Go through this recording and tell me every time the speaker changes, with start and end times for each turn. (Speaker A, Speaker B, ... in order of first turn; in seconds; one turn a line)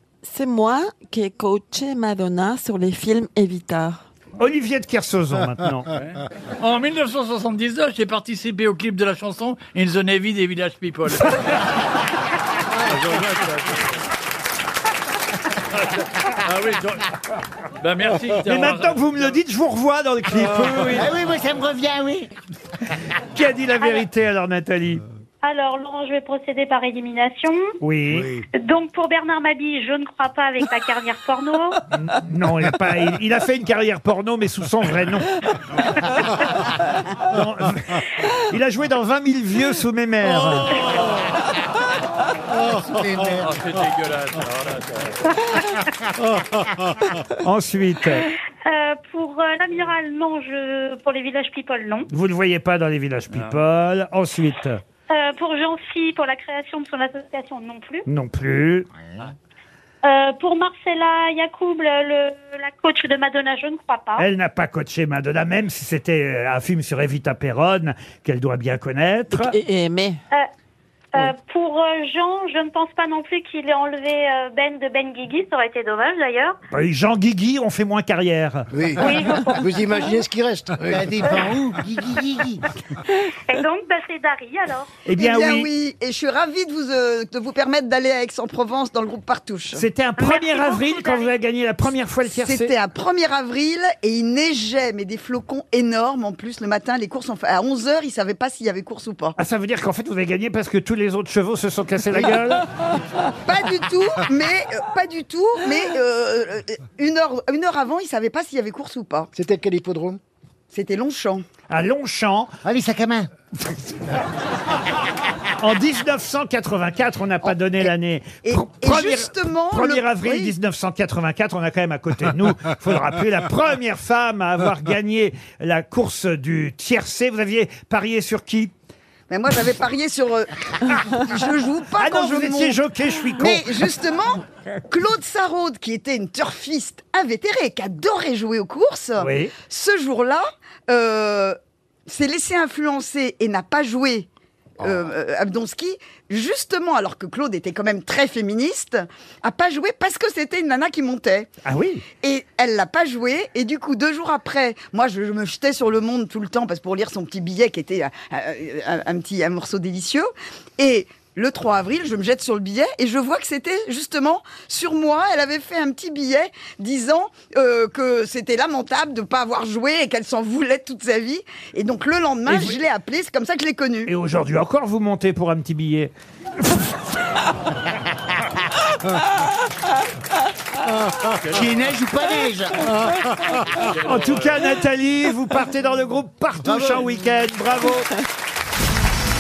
Speaker A: 0.2-4.0
Speaker B: 4.4-5.9
Speaker C: 6.0-11.6
Speaker C: 12.8-13.8
Speaker C: 16.3-17.1
Speaker C: 17.8-19.4
Speaker B: 18.5-21.1
Speaker D: 20.8-22.3
Speaker B: 23.3-25.0
Speaker E: 25.4-27.7
Speaker B: 27.8-28.3
Speaker D: 28.1-28.5
Speaker E: 28.5-31.8
Speaker B: 31.9-35.3
Speaker B: 37.2-41.0
Speaker D: 42.6-43.5
Speaker C: 43.2-45.4
Speaker B: 47.4-48.3
Speaker E: 48.7-52.1
Speaker B: 52.1-54.8
Speaker C: 53.3-53.6
Speaker E: 55.1-58.0
Speaker B: 58.1-58.9
Speaker E: 60.0-64.2
Speaker B: 64.2-69.5
Speaker A: 69.3-70.2
Speaker E: 71.1-76.6
Speaker B: 76.7-78.7
Speaker F: 78.7-81.2
Speaker E: 79.0-79.6
Speaker D: 80.9-82.7
Speaker E: 83.5-84.9
Speaker B: 85.1-85.7
Speaker G: 85.2-89.8
Speaker B: 89.8-92.7
Speaker E: 90.2-91.3
Speaker G: 92.3-99.4
Speaker B: 99.4-102.7
Speaker G: 103.5-109.3
Speaker F: 109.3-110.2
Speaker G: 110.7-111.5
Speaker B: 111.7-112.5
Speaker D: 112.6-113.3
Speaker B: 115.6-128.7
Speaker G: 117.5-117.9
Speaker G: 118.5-120.5
Speaker G: 129.3-132.8
Speaker B: 132.0-133.8
Speaker G: 133.4-144.3
Speaker B: 139.2-139.5
Speaker G: 144.8-151.5
Speaker B: 151.7-152.1
Speaker G: 152.2-174.1
Speaker B: 172.5-172.8
Speaker B: 174.1-176.1
Speaker B: 176.6-176.9
Speaker C: 181.4-181.8
Speaker D: 181.5-182.9
Speaker C: 183.7-184.7
Speaker B: 184.0-188.1
Speaker D: 186.6-187.1